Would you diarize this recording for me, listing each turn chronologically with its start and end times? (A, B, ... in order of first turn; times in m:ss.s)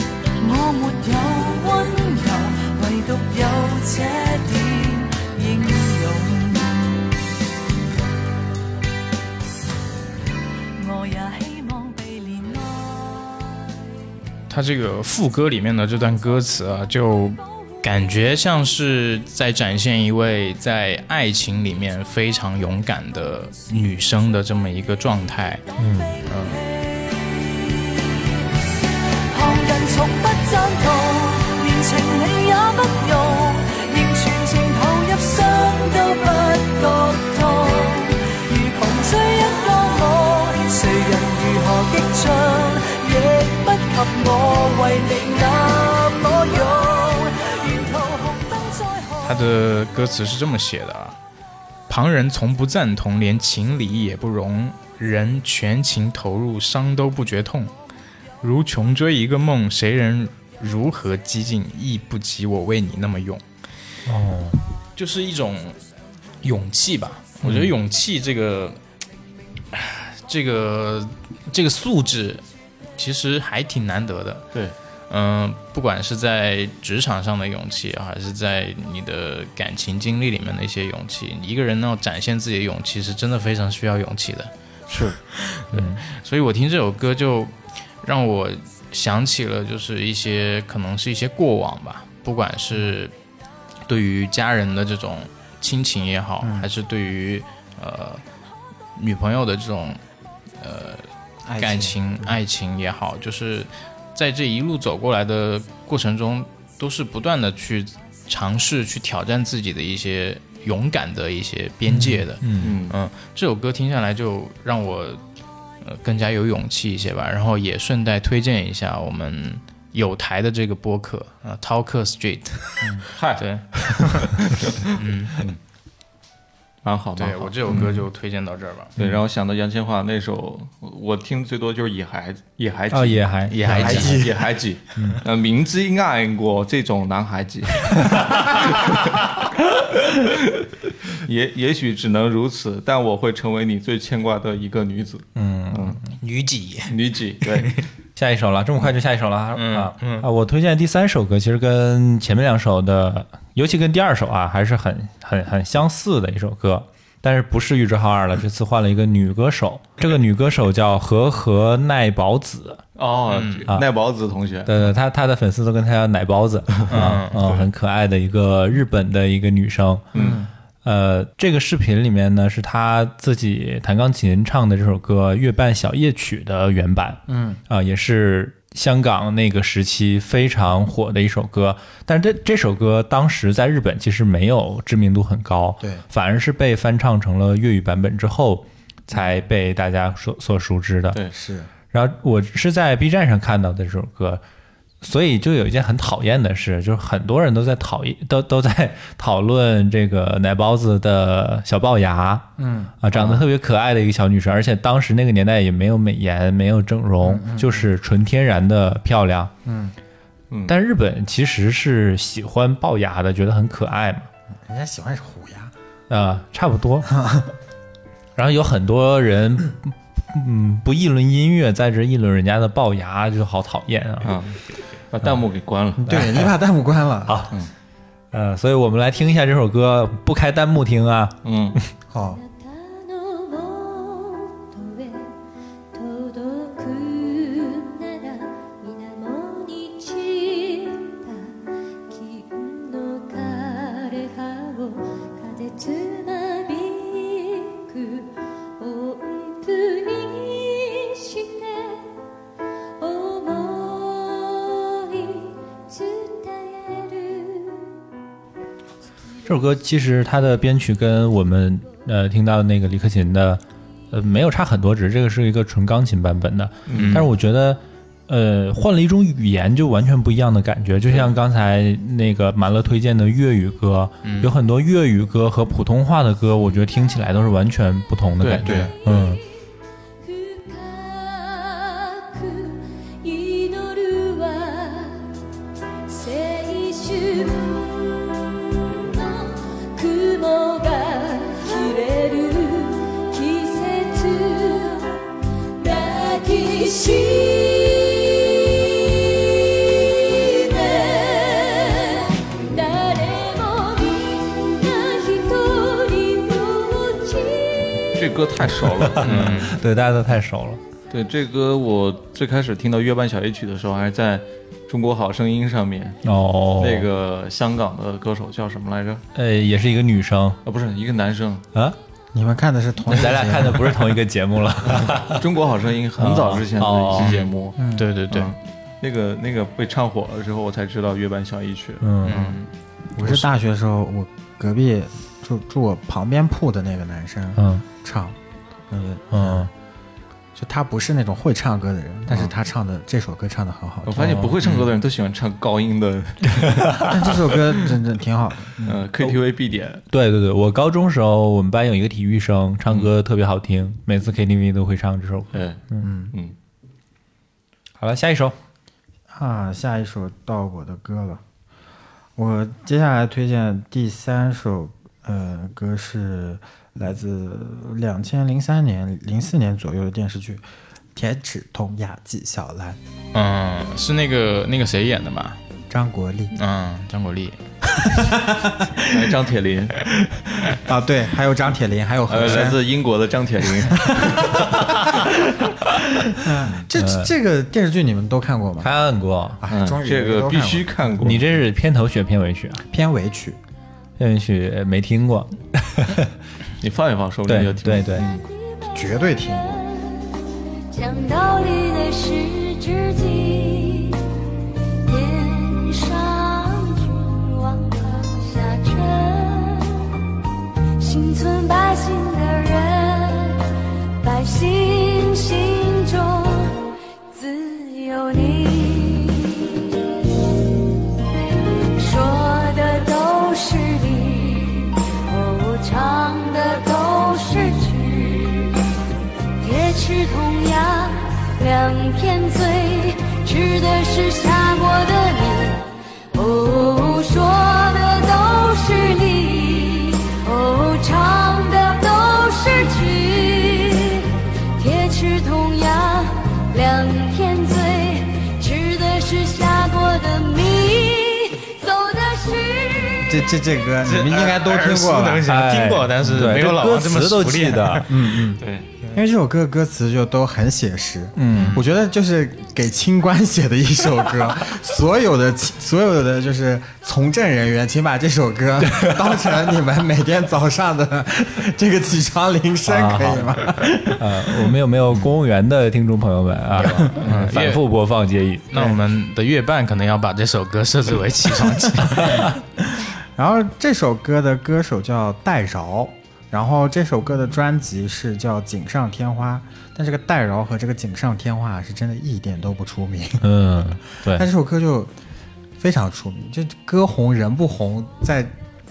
0:00.4-0:07.0 A
0:10.8-0:13.5 A
0:14.5-0:25.6 B
0:25.8-0:26.1 C
0:26.6-0:28.2 A
0:29.3-0:49.3 A
0:49.2-0:51.2 B
0:51.9-0:57.7 B
0:58.4-1:03.4 B
1:04.0-1:04.6 C
1:05.0-1:05.8 B
1:06.4-1:08.8 B
1:09.7-1:12.4 B
1:13.0-1:14.4 B
1:15.1-1:24.5 B
1:25.1-1:33.1 B
1:25.7-1:26.0 C
1:33.9-1:38.2 B
1:36.4-1:36.7 D
1:39.0-1:40.0 B
1:40.6-1:41.1 B
1:41.5-1:42.3 D
1:41.6-1:55.2 B
1:51.9-1:52.7 C
1:52.6-1:52.9 E
1:55.8-2:04.3 B
2:03.1-2:04.0 E
2:05.0-2:05.4 B
2:06.8-2:07.9 E
2:07.2-2:08.9 B
2:09.0-2:19.5 E
2:12.9-2:14.2 C
2:13.5-2:14.3 B
2:13.9-2:14.3 D
2:20.2-2:20.5 E
2:21.2-2:26.0 E
2:25.4-2:26.0 C
2:26.2-2:27.9 B
2:26.9-2:27.7 E
2:28.2-2:42.8 C
2:29.5-2:30.3 B
2:43.0-2:44.9 E
2:43.3-2:43.7 B
2:44.7-2:50.1 C
2:46.9-2:47.7 E
2:46.9-2:47.4 B
2:50.1-2:50.4 E
2:50.1-2:50.5 D
2:50.8-3:11.2 C
2:57.3-2:57.6 D
3:11.3-3:11.7 D
3:11.9-3:14.4 C
3:15.0-3:29.5 C
3:22.6-3:22.9 D
3:23.1-3:23.4 E
3:27.2-3:27.9 D
3:29.6-3:29.9 D
3:30.7-3:34.3 C
3:34.6-3:35.7 D
3:36.1-3:37.1 C
3:37.1-3:37.5 D
3:38.4-3:44.3 C
3:44.2-3:46.0 E
3:46.0-3:46.5 C
3:46.0-3:47.5 D
3:47.3-3:47.5 C
3:48.3-3:51.4 C
3:51.4-3:51.8 E
3:52.1-3:52.4 D
3:52.3-3:55.3 F
3:55.9-4:01.5 F
4:02.1-4:12.1 F
4:13.0-4:17.9 F
4:19.4-4:39.4 C
4:26.9-4:27.2 E
4:26.9-4:27.3 B
4:34.2-4:34.5 B
4:38.4-4:39.2 E
4:40.2-4:45.3 F
4:46.1-5:08.2 F
5:08.1-5:09.7 E
5:09.0-5:10.8 C
5:09.2-5:09.7 B
5:11.1-5:16.2 E
5:16.2-5:17.1 C
5:16.8-5:19.2 E
5:19.3-5:20.6 C
5:20.6-5:21.6 E
5:22.3-5:24.1 D
5:23.1-5:25.4 C
5:24.9-5:27.8 E
5:26.2-5:27.3 C
5:27.1-5:28.5 B
5:27.8-5:28.0 D
5:28.3-5:32.0 E
5:32.0-5:32.6 C
5:32.2-5:32.7 B
5:33.2-5:38.4 D
5:33.2-5:33.5 C
5:37.6-5:37.8 C
5:38.9-5:39.7 D
5:39.3-5:39.7 C
5:40.5-5:44.5 D
5:44.1-5:47.0 E
5:47.1-5:49.0 D
5:48.8-5:50.0 E
5:50.1-5:56.0 C
5:55.5-5:56.5 E
5:56.0-5:56.3 D
5:58.0-5:58.6 C
5:59.3-6:01.4 D
6:02.4-6:10.6 D
6:11.1-6:13.0 D
6:13.3-6:15.6 B
6:15.9-6:16.5 D
6:16.5-6:17.6 B
6:18.0-6:19.2 D
6:19.1-6:20.0 E
6:20.7-6:22.8 D
6:22.3-6:24.5 E
6:23.9-6:25.3 D
6:26.4-6:28.9 D
6:26.9-6:27.3 C
6:28.8-6:29.6 C
6:29.6-6:31.2 D
6:29.7-6:31.5 E
6:31.2-6:32.8 C
6:32.8-6:33.6 D
6:34.2-6:36.3 C
6:36.8-6:38.4 E
6:37.5-6:38.3 C
6:38.9-6:39.8 D
6:39.8-6:40.1 F
6:40.9-6:44.2 F
6:45.0-6:50.0 F
6:51.0-6:53.6 F
6:54.2-7:00.0 F
7:02.0-7:08.8 F
7:09.6-7:33.3 F
7:33.2-7:35.5 D
7:34.0-7:38.3 B
7:35.5-7:38.1 C
7:38.1-7:54.2 D
7:38.6-7:38.9 E
7:41.4-7:41.8 C
7:48.9-7:49.2 C
7:52.8-7:58.9 C
7:56.7-7:57.8 B
7:58.7-8:02.5 B
8:03.3-8:13.4 D
8:13.4-8:14.5 C
8:14.2-8:15.1 D
8:15.8-8:18.5 D